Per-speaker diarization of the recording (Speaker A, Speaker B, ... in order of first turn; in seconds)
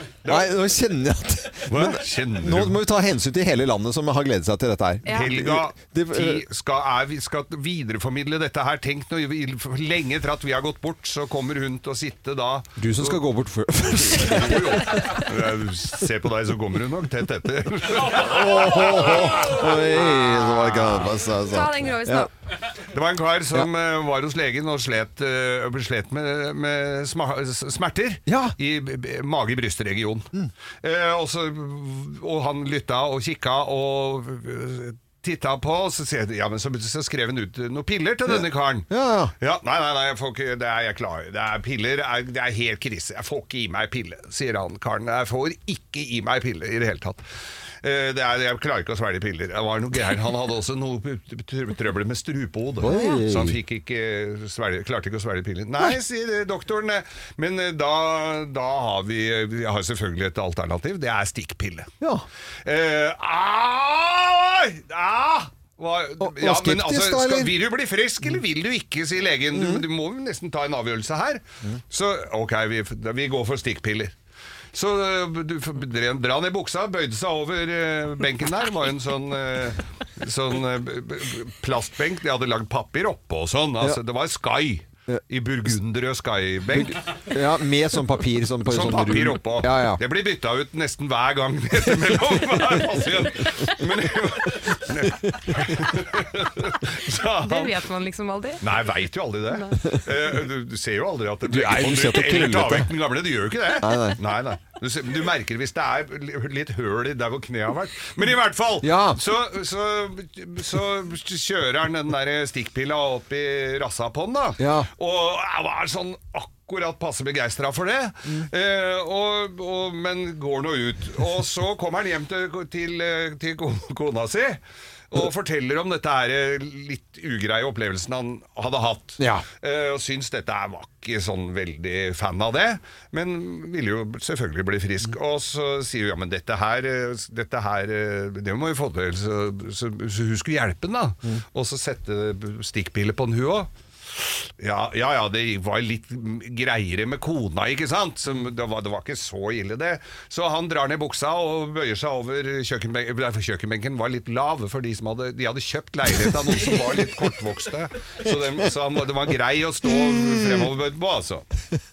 Speaker A: 0.2-0.5, 1.7-2.8, 5.1-13.2, 14.1-21.1, 22.9-30.3, 30.8-38.9, 39.4-47.2, 47.8-61.9, 62.6-74.1, 74.7-87.2, 88.7-97.8, 98.6-124.6, 125.1-161.4
Speaker B: 0.2-6.4, 12.8-15.0, 18.1-22.3, 28.3-28.6, 38.2-39.3, 52.8-53.6, 66.2-67.5, 69.5-69.8, 86.7-90.0, 101.5-102.9, 103.8-104.2, 108.8-109.2, 114.6-114.9, 129.2-129.4, 160.1-160.7
Speaker C: 21.4-22.3, 52.9-53.2, 97.4-98.6